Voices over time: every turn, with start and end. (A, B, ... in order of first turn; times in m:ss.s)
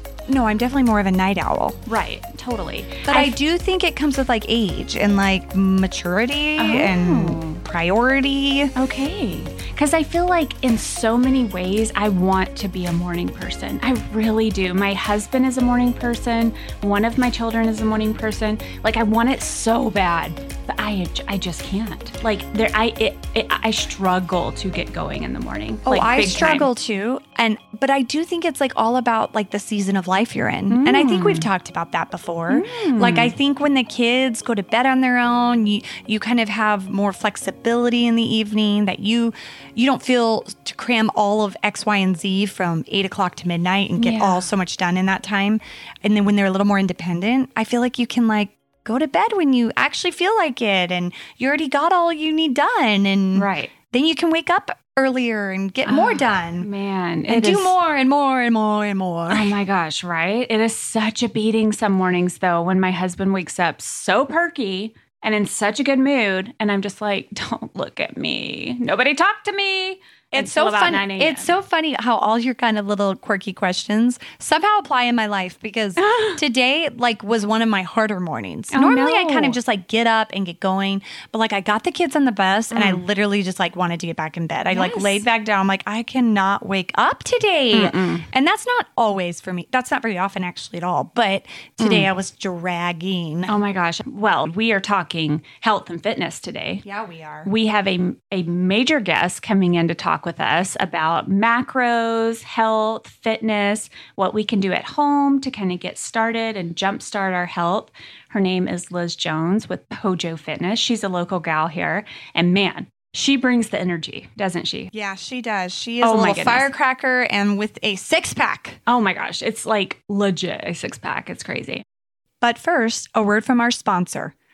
0:00.3-0:01.8 A
0:01.8-0:03.4 B
0:03.1-0:08.7 A
0:06.6-0:07.6 B
0:08.8-0:26.7 B
0:25.8-0:56.7 A
0:30.7-0:31.5 B
0:32.5-0:33.3 B
0:44.0-0:44.5 B
0:53.3-0:53.7 B
0:55.8-0:57.7 B
0:57.3-0:59.5 A
0:59.3-1:11.5 B
1:10.3-1:33.5 A
1:16.0-1:16.4 B
1:18.7-1:19.6 B
1:22.7-1:23.0 B
1:24.7-1:25.2 B
1:27.7-1:28.2 B
1:31.8-1:32.1 B
1:33.5-1:36.8 B
1:36.8-1:37.5 A
1:37.4-1:54.9 B
1:54.9-1:58.8 A
1:56.0-1:56.7 B
1:58.9-2:01.8 B
2:02.4-2:04.3 A